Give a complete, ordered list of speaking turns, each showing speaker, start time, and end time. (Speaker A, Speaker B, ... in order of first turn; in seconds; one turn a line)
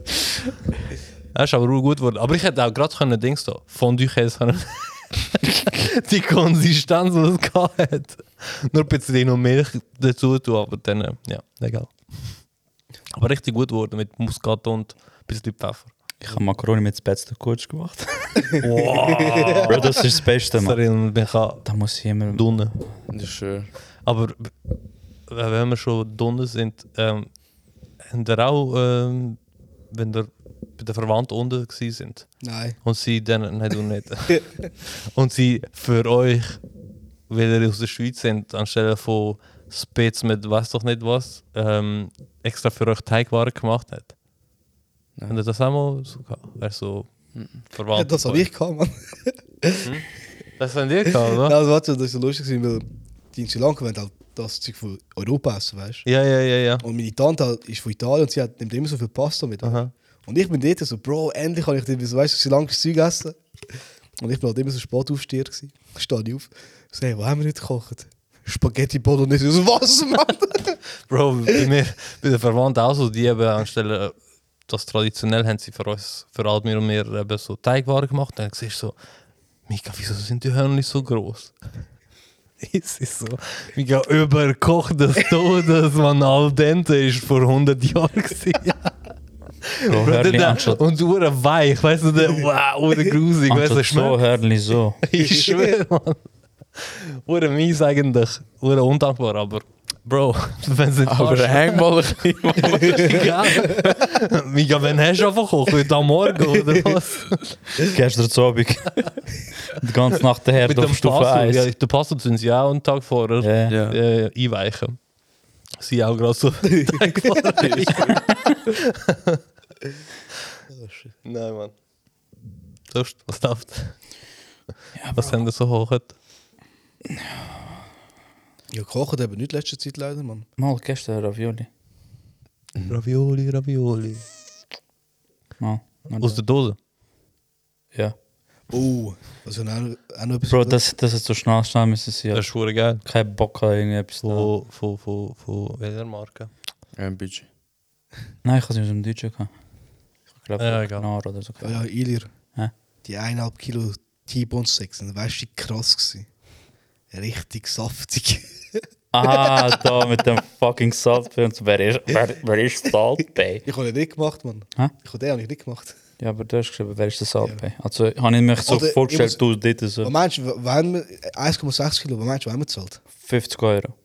Speaker A: 1.3-12.4
Speaker A: 13.1-15.9
Speaker B: 16.2-18.5
Speaker A: 18.6-21.7
Speaker C: 19.0-19.8
Speaker B: 19.6-20.8
Speaker B: 21.6-22.7
Speaker A: 22.3-22.7
Speaker D: 23.1-23.7
Speaker A: 24.0-24.5
Speaker A: 25.3-27.3
Speaker A: 28.1-36.6
Speaker C: 32.4-32.8
Speaker A: 37.3-44.1
Speaker A: 45.3-48.5
Speaker D: 47.3-47.6
Speaker C: 47.9-49.9
Speaker A: 50.6-51.5
Speaker C: 51.2-56.1
Speaker A: 56.0-56.8
Speaker C: 56.8-63.4
Speaker A: 59.6-59.9
Speaker C: 64.2-70.8
Speaker A: 71.1-79.0
Speaker A: 79.7-81.6
Speaker A: 82.6-89.0
Speaker A: 89.7-94.2
Speaker B: 89.9-90.8
Speaker B: 93.5-95.0
Speaker A: 95.0-96.2
Speaker C: 95.2-95.7
Speaker A: 96.8-101.9
Speaker D: 101.0-104.0
Speaker A: 102.6-107.6
Speaker B: 107.8-111.7
Speaker A: 110.6-115.0
Speaker B: 113.4-113.8
Speaker D: 113.7-114.0
Speaker A: 115.8-119.4
Speaker C: 116.7-117.3
Speaker D: 117.5-118.3
Speaker A: 121.2-121.7
Speaker A: 122.9-124.0
Speaker B: 124.9-125.4
Speaker A: 125.1-126.2
Speaker C: 128.7-130.5
Speaker B: 130.6-131.7
Speaker A: 132.8-134.2
Speaker B: 135.6-136.4
Speaker A: 136.1-136.8
Speaker C: 138.7-140.8
Speaker B: 140.5-144.5
Speaker A: 142.3-143.0
Speaker A: 144.2-146.5
Speaker D: 146.9-147.5
Speaker B: 148.4-149.5
Speaker B: 150.4-151.8
Speaker A: 150.6-151.1
Speaker C: 151.6-152.3
Speaker C: 153.0-156.3
Speaker C: 157.1-158.6
Speaker B: 159.1-163.7
Speaker C: 159.3-159.6
Speaker C: 163.6-165.9
Speaker B: 166.2-170.1
Speaker C: 168.6-169.4
Speaker C: 170.0-173.0
Speaker B: 173.2-173.9